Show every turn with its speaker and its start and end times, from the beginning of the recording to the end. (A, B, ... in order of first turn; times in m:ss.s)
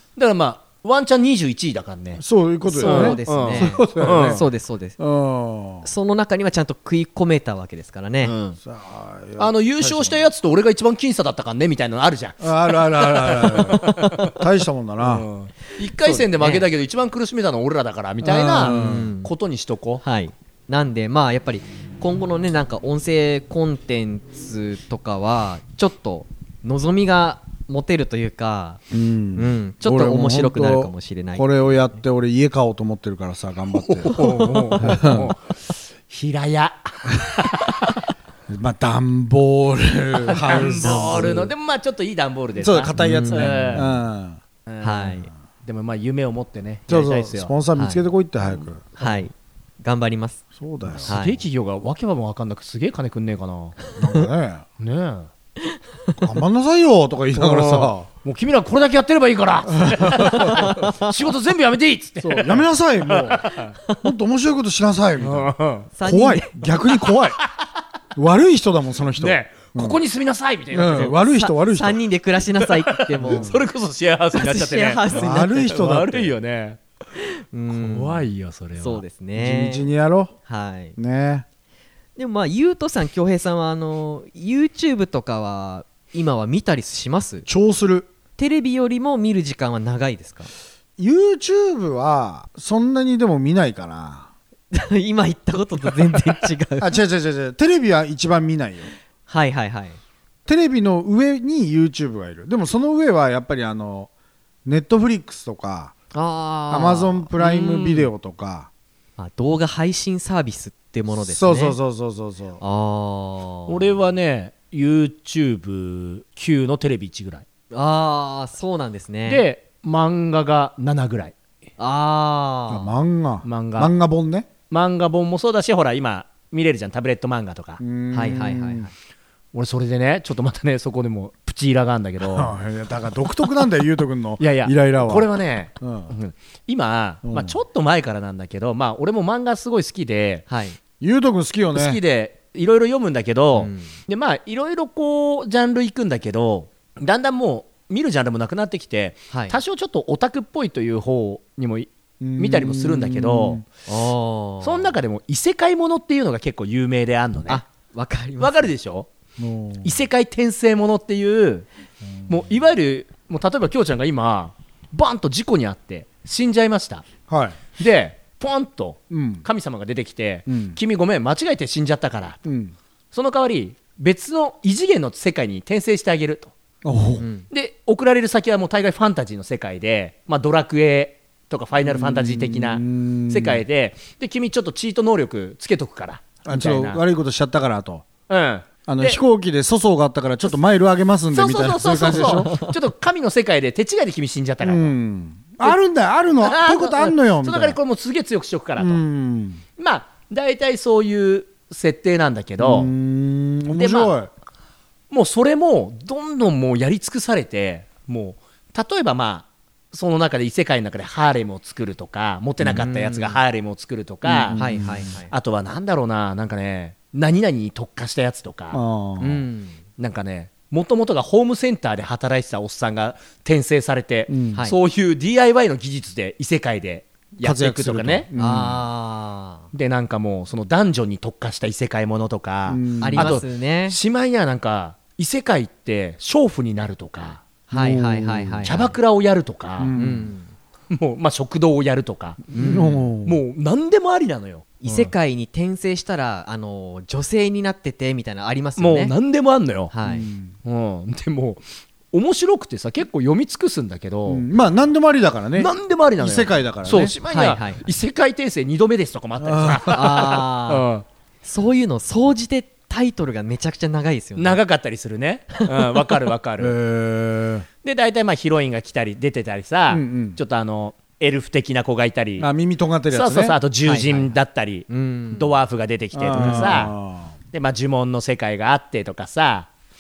0:00.2-0:02.2 A
0:02.2-0:04.4 B
0:02.6-0:05.0 C
0:02.8-0:04.4 A
0:05.0-0:05.9 B
0:05.8-0:08.3 C
0:08.2-0:08.6 A
0:08.6-0:10.3 B
0:09.4-0:14.3 A
0:12.4-0:15.3 B
0:15.0-0:20.0 A
0:16.0-0:16.6 C
0:18.2-0:19.1 B
0:18.6-0:19.3 C
0:20.0-0:28.8 C
0:28.9-0:34.2 B
0:29.4-0:31.5 C
0:33.8-0:38.0 A
0:34.8-0:35.3 B
0:38.5-0:41.5 B
0:40.2-0:43.9 A
0:40.5-0:41.4 C
0:42.6-0:44.4 B
0:43.0-0:43.9 C
0:44.7-0:47.5 A
0:44.8-0:45.3 C
0:46.9-0:48.9 B
0:47.8-0:48.0 C
0:49.0-0:50.4 C
0:50.6-0:51.1 B
0:51.0-0:53.8 A
0:51.0-0:51.4 C
0:54.0-0:54.6 B
0:54.8-0:55.3 A
0:56.2-0:58.1 B
0:57.4-1:03.7 A
0:59.8-1:00.8 B
1:02.2-1:03.5 B
1:04.0-1:07.4 B
1:05.2-1:05.9 A
1:06.0-1:06.6 C
1:08.1-1:10.0 B
1:09.2-1:11.2 A
1:10.7-1:12.0 B
1:11.3-1:13.6 C
1:12.6-1:16.8 A
1:13.2-1:13.5 B
1:14.3-1:15.8 C
1:15.1-1:16.3 B
1:17.2-1:19.9 C
1:17.7-1:19.0 A
1:19.4-1:20.3 B
1:20.5-1:21.0 C
1:21.0-1:21.4 B
1:22.2-1:27.5 C
1:27.5-1:28.1 B
1:28.4-1:30.5 C
1:31.0-1:34.3 B
1:34.7-1:37.0 C
1:36.8-1:38.9 B
1:39.3-1:40.0 C
1:40.5-1:44.1 B
1:44.6-1:46.0 B
1:46.1-1:47.3 C
1:46.7-1:48.7 B
1:47.4-1:48.1 A
1:49.2-1:51.8 C
1:51.1-1:52.6 B
1:52.6-1:53.9 C
1:53.7-1:57.4 A
1:57.7-1:59.4 C
1:59.2-2:01.4 A
2:01.8-2:02.9 C
2:02.7-2:04.5 B
2:03.4-2:03.9 A
2:04.7-2:07.8 A
2:07.8-2:08.9 B
2:08.1-2:08.9 C
2:09.5-2:12.5 A
2:12.2-2:15.3 B
2:14.4-2:20.4 A
2:15.8-2:16.1 B
2:17.2-2:17.6 B
2:20.5-2:20.8 C
2:21.0-2:22.0 B
2:21.7-2:33.6 A
2:23.6-2:23.9 C
2:29.3-2:29.6 C
2:32.2-2:33.6 B
2:33.9-2:34.9 C
2:34.6-2:37.6 A
2:37.5-2:38.7 C
2:38.4-2:39.1 A
2:39.4-2:40.0 B
2:39.8-2:41.7 A
2:42.3-2:47.1 A
2:47.3-2:47.6 B
2:47.7-2:52.4 A
2:49.1-2:49.4 B
2:50.5-2:50.8 B
2:52.4-2:52.7 B
2:53.1-2:56.5 A
2:56.8-2:57.2 B
2:57.2-2:57.5 C
2:57.5-3:07.0 A
3:01.8-3:03.6 B
3:06.5-3:08.1 B
3:08.3-3:09.2 A
3:08.9-3:12.5 B
3:11.3-3:14.9 A
3:12.5-3:12.7 C
3:14.6-3:17.8 B
3:16.4-3:19.0 A
3:18.8-3:19.6 B
3:19.8-3:22.9 A
3:22.6-3:24.3 B
3:23.7-3:24.1 A
3:25.1-3:34.6 A
3:32.6-3:32.9 B
3:32.8-3:33.4 C
3:34.2-3:35.1 B
3:34.5-3:35.3 C
3:35.3-3:38.8 A
3:38.7-3:39.4 B
3:39.2-3:39.8 C
3:40.0-3:48.3 A
3:44.3-3:44.6 B
3:47.4-3:48.8 B
3:48.4-3:49.7 C
3:49.7-3:57.4 A
3:52.7-3:53.4 B
3:53.0-3:54.0 C
3:57.7-3:59.0 C
3:57.7-3:58.7 B
3:58.6-3:59.9 A
3:59.8-4:00.3 B
4:00.0-4:00.5 C
4:00.9-4:05.1 A
4:02.5-4:03.0 C
4:02.6-4:03.4 B
4:04.8-4:09.1 C
4:08.8-4:09.9 A
4:09.9-4:10.3 C
4:10.0-4:10.5 B
4:10.6-4:14.4 A
4:14.2-4:17.1 B
4:15.6-4:21.0 A
4:17.3-4:17.8 C
4:19.4-4:20.1 B
4:19.9-4:20.8 C
4:21.4-4:24.6 C
4:24.4-4:26.8 A
4:25.8-4:26.1 C
4:26.6-4:27.6 B
4:27.8-4:32.5 A
4:29.9-4:30.4 B
4:32.4-4:33.6 B
4:33.1-4:36.9 A
4:33.8-4:34.4 C
4:34.9-4:35.5 C
4:36.1-4:37.3 B
4:36.3-4:36.9 C
4:37.5-4:39.7 A